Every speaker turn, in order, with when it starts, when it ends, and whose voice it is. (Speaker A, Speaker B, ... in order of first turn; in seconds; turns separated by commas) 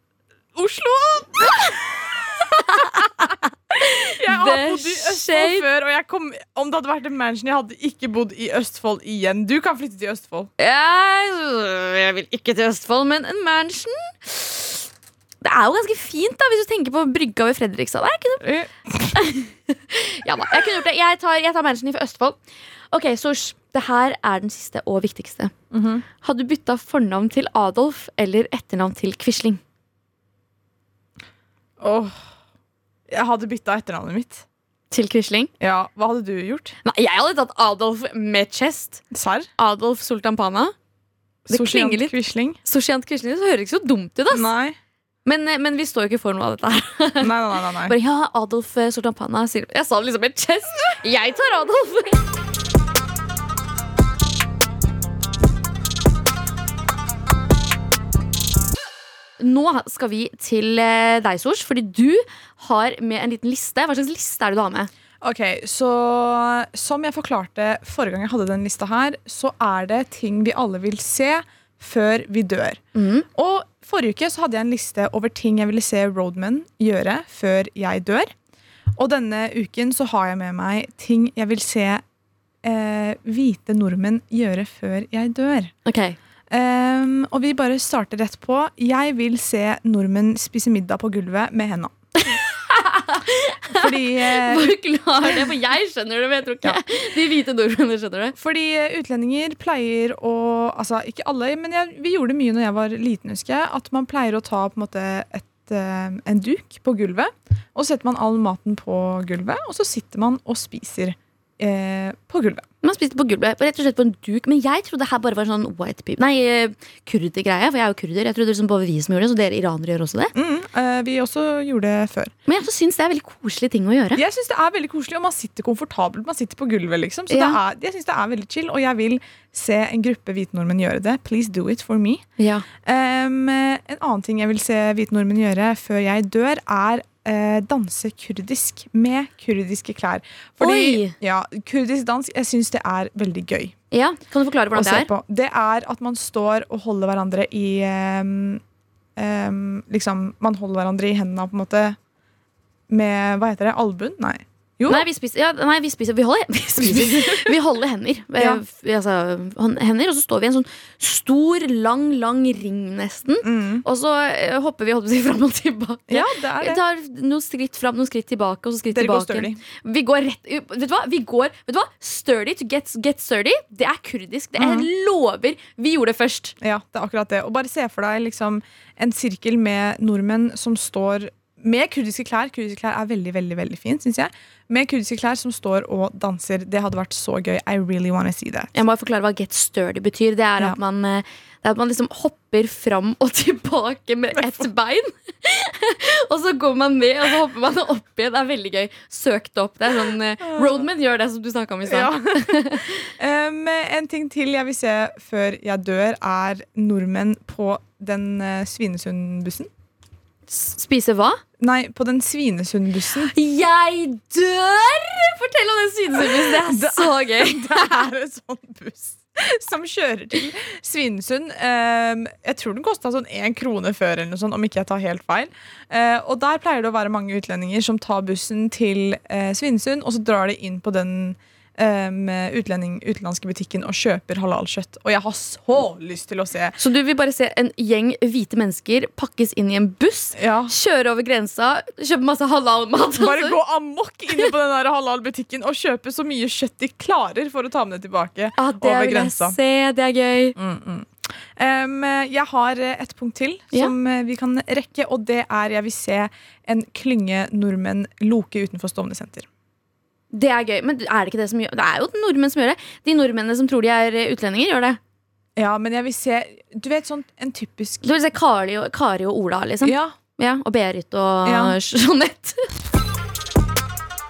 Speaker A: 0.5-10.5, Speaker B: 2.5-5.7, Speaker B: 10.6-14.9, Speaker B: 15.4-18.5, Speaker A: 18.4-19.1, Speaker B: 19.1-22.4, Speaker B: 22.9-25.5, Speaker A: 25.7-26.0, Speaker B: 26.2-29.6, Speaker A: 31.8-32.1, Speaker A: 33.1-34.4, Speaker B: 34.9-35.5, Speaker A: 35.6-36.8, Speaker B: 36.8-39.0, Speaker A: 39.1-39.5, Speaker B: 39.6-40.7, Speaker B: 41.5-44.5, Speaker A: 41.5-42.6, Speaker A: 44.3-44.8, Speaker B: 45.2-47.3, Speaker A: 47.2-48.0, Speaker B: 47.8-52.2, Speaker B: 59.4-64.9, Speaker A: 65.2-72.8, Speaker B: 72.9-73.2, Speaker A: 73.3-78.3, Speaker A: 79.0-82.0, Speaker A: 82.6-85.7, Speaker B: 85.8-86.2, Speaker A: 86.5-91.9, Speaker B: 92.2-98.3, Speaker A: 93.7-95.6, Speaker A: 98.3-112.6, Speaker B: 112.8-120.3, Speaker A: 120.3-122.3, Speaker B: 122.5-124.2, Speaker A: 124.1-132.2, Speaker B: 127.3-127.6, Speaker B: 132.4-132.7, Speaker A: 132.8-143.7, Speaker B: 140.6-141.1, Speaker B: 143.9-145.1, Speaker A: 144.7-148.6, Speaker A: 149.2-152.0, Speaker A: 152.9-155.1, Speaker B: 154.9-176.5, Speaker A: 156.8-157.6, Speaker A: 163.4-163.8, Speaker A: 166.1-166.8, Speaker A: 168.9-169.6, Speaker A: 174.6-174.9, Speaker A: 176.6-188.7, Speaker B: 188.7-203.1, Speaker A: 194.3-194.7, Speaker A: 200.1-200.8, Speaker A: 201.8-209.7, Speaker B: 210.5-211.4, Speaker A: 211.6-213.3, Speaker B: 213.3-218.0, Speaker A: 216.2-236.8, Speaker B: 236.8-243.6, Speaker A: 240.3-240.7, Speaker A: 243.2-249.6, Speaker B: 248.6-250.6, Speaker A: 250.6-259.5, Speaker B: 260.3-265.0, Speaker A: 265.6-268.1, Speaker B: 268.0-272.7, Speaker A: 269.8-270.2, Speaker A: 271.4-271.8